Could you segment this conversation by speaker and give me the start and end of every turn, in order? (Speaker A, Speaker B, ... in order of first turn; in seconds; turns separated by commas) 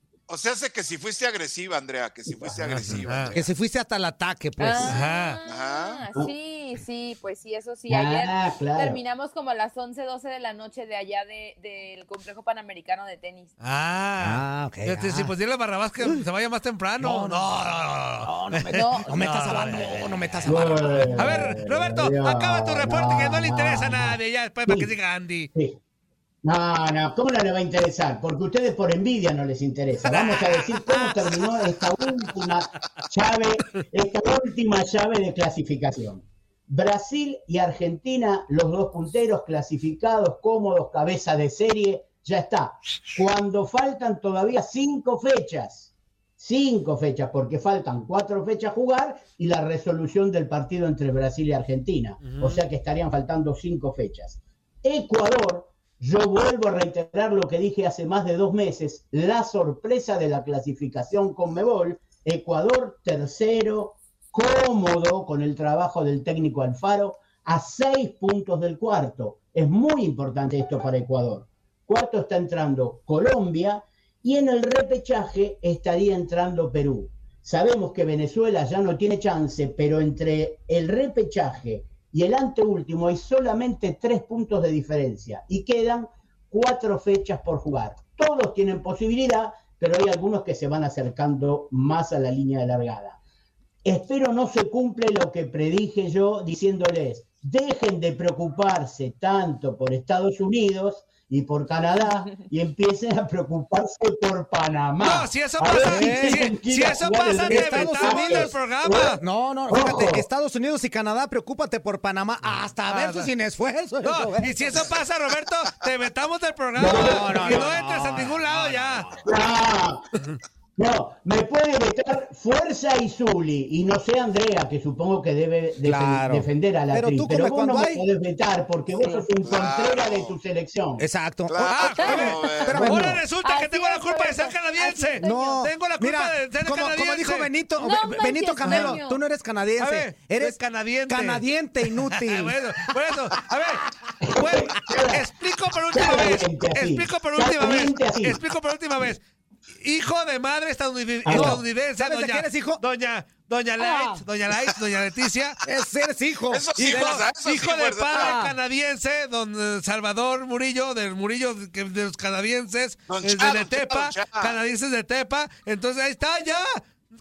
Speaker A: 0.3-3.5, Speaker B: 2.5-2.8, Speaker C: 2.7-3.4, Speaker D: 3.3-5.0, Speaker E: 4.6-13.5, Speaker C: 4.8-5.4, Speaker A: 5.5-6.0, Speaker B: 7.9-9.0, Speaker C: 13.6-25.5, Speaker D: 14.2-15.3, Speaker D: 17.0-17.5, Speaker D: 18.2-21.4, Speaker E: 18.8-20.0, Speaker B: 20.5-24.9, Speaker B: 26.4-93.2, Speaker C: 30.1-31.6, Speaker C: 52.2-52.6, Speaker B: 93.8-109.2, Speaker C: 105.0-109.2, Speaker D: 105.8-106.5, Speaker D: 107.5-108.5, Speaker D: 109.1-114.9, Speaker B: 109.7-110.2, Speaker C: 112.8-113.3, Speaker C: 114.0-119.1, Speaker B: 116.8-117.8, Speaker D: 116.8-119.2, Speaker B: 119.2-120.0, Speaker B: 120.8-131.1, Speaker D: 125.8-128.0, Speaker E: 129.0-129.3, Speaker A: 129.4-130.4, Speaker D: 131.0-131.9, Speaker A: 131.5-132.8, Speaker C: 131.6-137.5, Speaker E: 132.0-132.6, Speaker D: 132.7-133.2, Speaker E: 133.4-135.6, Speaker D: 135.2-142.6, Speaker E: 137.8-139.2, Speaker C: 138.7-139.0, Speaker C: 139.8-149.2, Speaker B: 144.3-145.3, Speaker B: 145.9-148.4, Speaker C: 149.8-155.6, Speaker B: 151.2-151.6, Speaker D: 151.3-152.8, Speaker E: 153.8-154.2, Speaker D: 155.6-157.2, Speaker A: 156.5-158.4, Speaker C: 156.8-166.8, Speaker E: 158.2-158.5, Speaker A: 163.1-164.6